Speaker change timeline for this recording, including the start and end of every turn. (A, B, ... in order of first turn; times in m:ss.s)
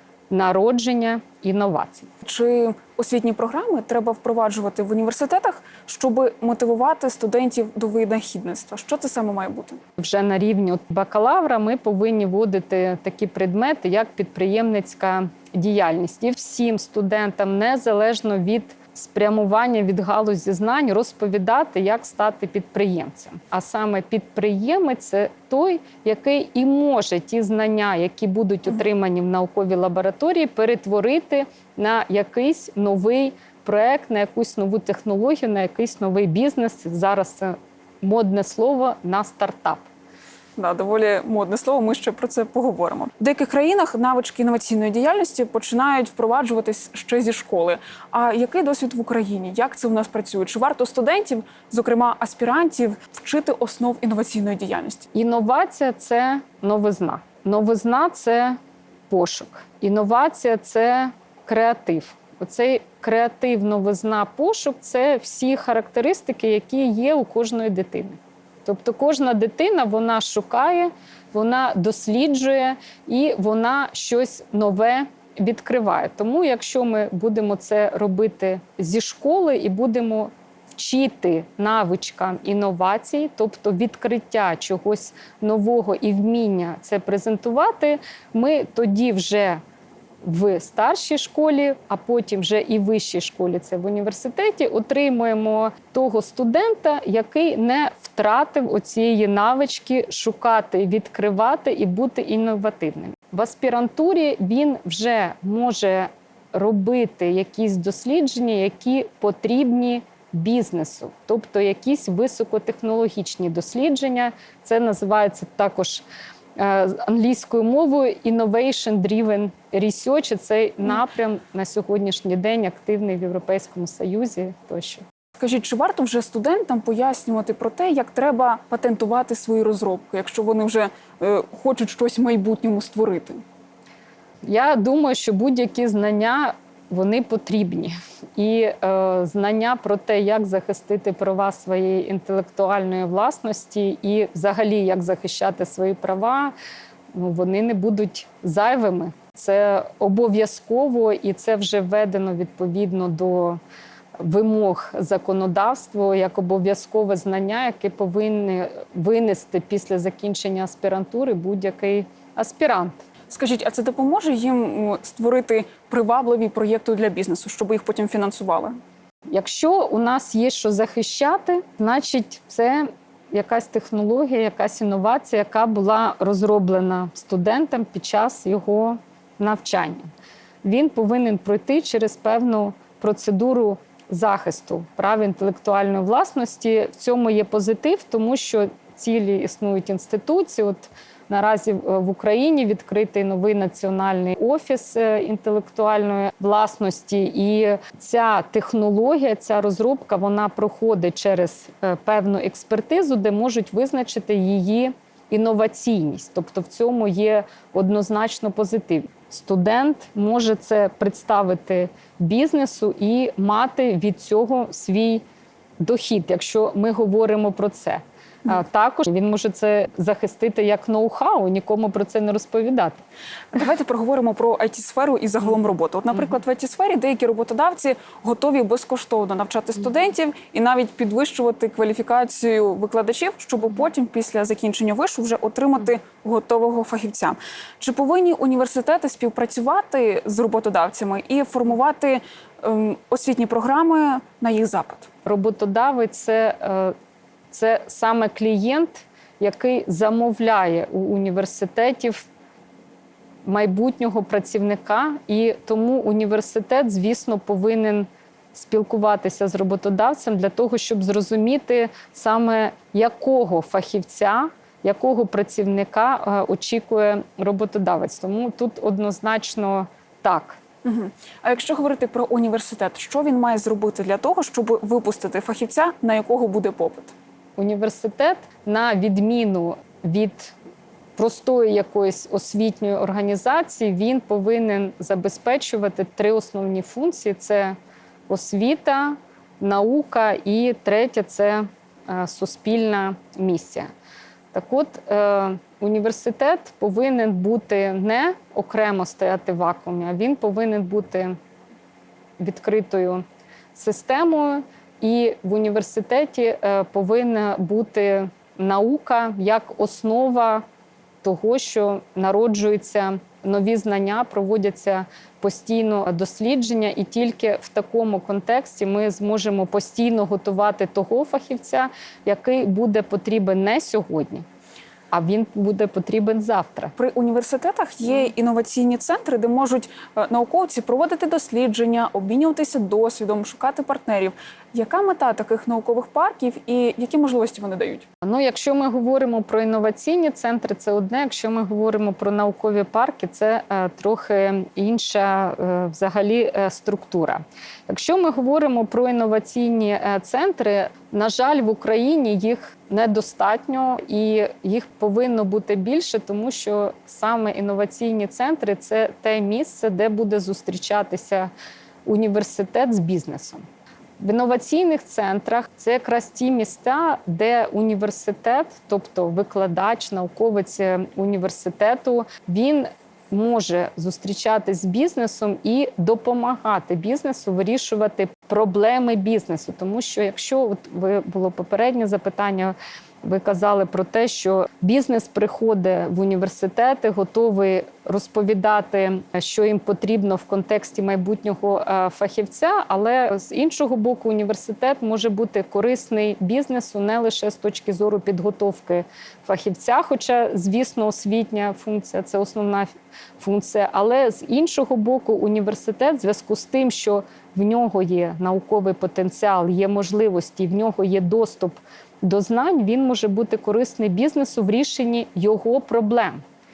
0:00.3-0:02.1 A
0:02.2-0:09.8 B
0:10.0-0:39.9 A
0:40.6-0:55.1 B
0:55.1-0:58.6 A
0:59.1-1:29.6 A
1:30.2-1:56.0 A
1:56.6-2:05.0 A
2:05.4-2:13.4 B
2:14.4-2:26.5 A
2:27.1-2:33.6 A
2:34.2-2:43.0 A
2:43.3-2:48.8 B
2:49.3-3:00.1 A
3:00.6-3:35.2 A
3:35.8-3:43.0 A
3:43.5-4:05.1 B
4:05.2-4:06.9 A
4:07.5-4:12.3 A
4:13.4-4:30.6 A
4:30.8-4:37.1 B
4:37.6-4:40.5 A
4:41.2-4:47.8 A
4:48.3-4:53.9 A
4:54.5-5:01.3 A
5:02.4-5:03.2 A
5:03.7-5:10.6 A
5:11.2-5:24.4 A
5:25.1-5:26.9 A
5:27.0-5:38.0 B
5:38.2-6:01.5 A
6:02.0-6:03.6 A
6:04.2-6:56.4 A